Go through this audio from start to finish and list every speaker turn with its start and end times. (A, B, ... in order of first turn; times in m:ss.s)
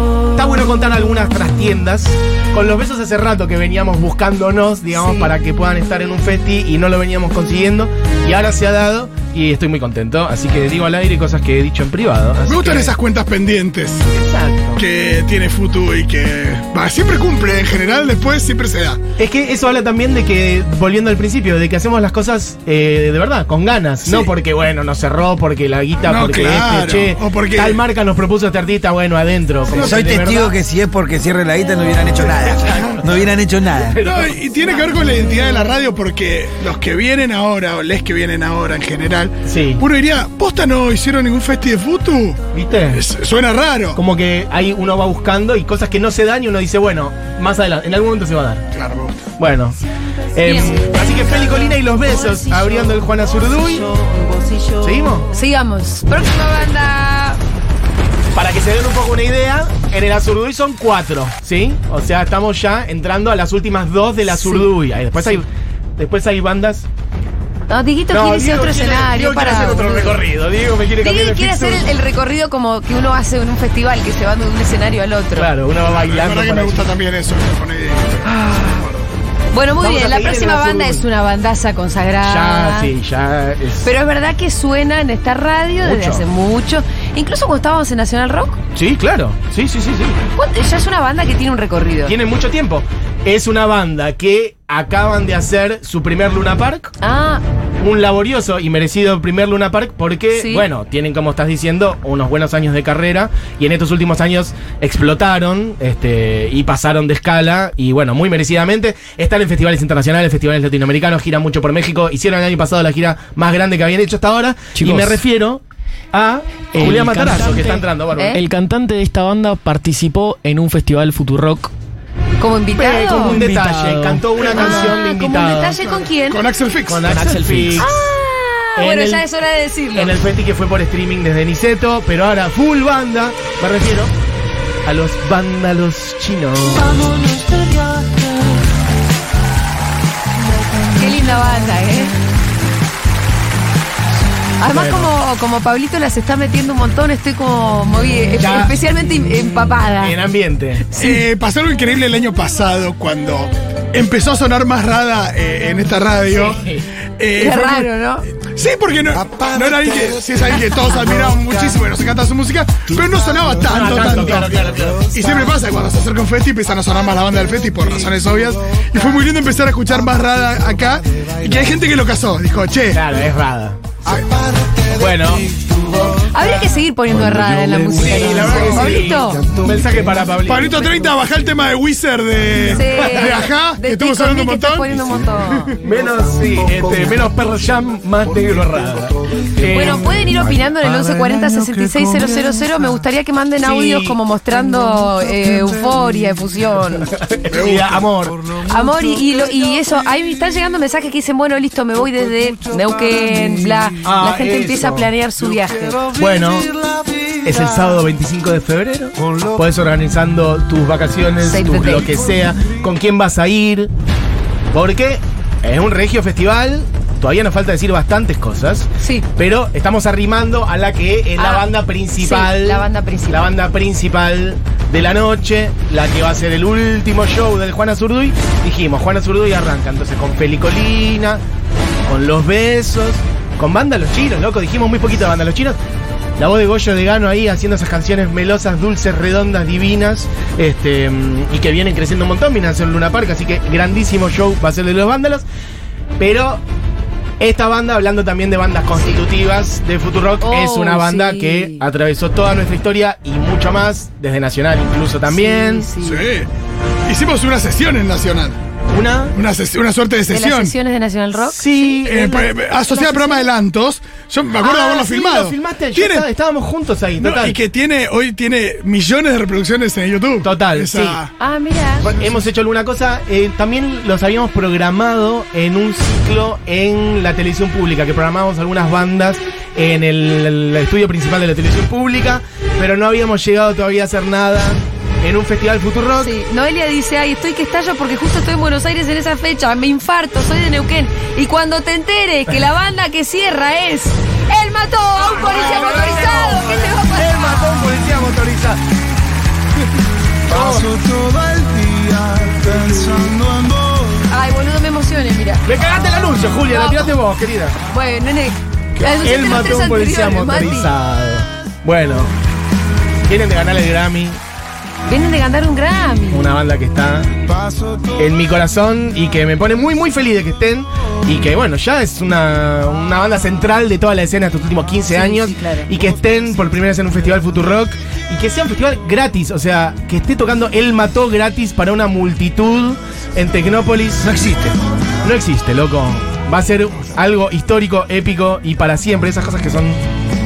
0:00.3-0:12.9 A
0:04.9-0:05.3 B
0:12.5-0:14.1 C
0:14.1-0:14.8 A
0:14.8-0:19.0 C
0:19.2-0:30.5 A
0:24.0-0:24.3 C
0:26.0-0:27.8 C
0:29.7-0:34.0 D
0:32.3-0:33.1 A
0:33.8-0:34.4 A
0:34.0-0:42.4 C
0:39.4-0:39.8 A
0:42.5-0:43.0 A
0:42.9-0:44.0 C
0:43.9-0:48.6 A
0:48.7-0:49.2 C
0:49.4-0:49.8 A
0:50.3-0:53.9 A
0:50.4-0:51.0 B
0:50.8-0:55.2 E
0:54.8-0:55.3 A
0:55.3-0:57.4 B
0:58.3-1:05.4 A
1:04.3-1:04.7 B
1:06.0-1:06.9 A
1:07.7-1:10.2 B
1:08.1-1:11.8 A
1:11.0-1:15.5 B
1:15.3-1:16.8 A
1:15.9-1:19.1 C
1:18.3-1:18.7 A
1:19.5-1:22.9 B
1:19.8-1:21.0 A
1:22.2-1:23.9 A
1:23.8-1:28.6 B
1:25.8-1:26.2 A
1:28.7-1:30.2 A
1:30.4-1:32.1 B
1:32.0-1:36.9 A
1:37.0-1:37.4 B
1:37.8-1:55.6 A
1:40.3-1:40.6 B
1:54.7-1:55.2 E
1:56.1-1:58.4 A
1:56.7-2:01.7 E
1:58.2-1:58.4 B
2:02.4-2:03.4 B
2:02.7-2:05.8 A
2:03.2-2:04.2 E
2:04.4-2:05.0 C
2:04.5-2:06.4 B
2:05.8-2:07.1 C
2:06.9-2:08.0 A
2:07.1-2:07.9 E
2:07.8-2:10.1 B
2:08.8-2:09.2 A
2:09.9-2:14.1 A
2:14.8-2:16.9 A
2:16.7-2:18.6 E
2:20.5-2:22.1 E
2:21.0-2:22.1 B
2:24.6-2:30.1 B
2:24.7-2:25.1 A
2:28.4-2:28.8 A
2:30.0-2:30.9 A
2:30.9-2:31.2 B
2:30.9-2:36.6 C
2:36.3-2:36.8 A
2:37.2-2:53.0 C
2:37.3-2:38.3 B
2:43.6-2:45.2 A
2:52.9-2:53.9 A
2:54.9-2:55.6 A
2:56.1-2:59.5 B
2:57.9-3:01.2 A
2:58.5-2:59.0 C
3:00.4-3:05.7 C
3:02.7-3:05.7 B
3:03.0-3:03.4 A
3:05.8-3:10.5 A
3:09.7-3:17.1 B
3:13.6-3:14.2 A
3:17.0-3:18.5 A
3:17.5-3:18.0 C
3:18.6-3:26.0 B
3:24.0-3:25.1 A
3:26.1-3:26.8 A
3:27.4-3:33.9 A
3:31.4-3:32.2 B
3:34.7-3:51.4 A
3:39.0-3:39.2 B
3:41.4-3:41.6 B
3:42.2-3:43.5 B
3:52.1-3:55.8 A
3:56.4-4:05.4 A
4:06.2-4:06.6 A
4:07.4-4:15.9 A
4:10.4-4:11.8 B
4:15.3-4:16.2 B
4:16.0-4:16.5 C
4:17.0-4:18.6 C
4:18.9-4:19.4 A
4:19.3-4:20.7 C
4:20.3-4:21.8 B
4:21.5-4:22.6 A
4:22.0-4:26.2 C
4:22.9-4:23.5 B
4:24.6-4:27.6 A
4:27.2-4:31.3 C
4:30.4-4:31.2 A
4:31.4-4:32.1 B
4:32.0-4:46.3 A
4:32.0-4:32.4 C
4:46.2-4:57.9 B
4:55.2-4:58.8 A
5:00.5-5:01.0 A
5:01.4-5:02.5 E
5:04.3-5:05.6 B
5:05.6-5:07.8 A
5:06.7-5:07.1 B
5:07.9-5:10.9 B
5:09.0-5:12.3 A
5:13.2-5:14.4 A
5:15.1-5:16.5 B
5:16.3-5:17.3 A
5:18.2-5:34.3 A
5:25.1-5:25.9 B
5:34.2-5:34.7 D
5:35.2-5:40.0 A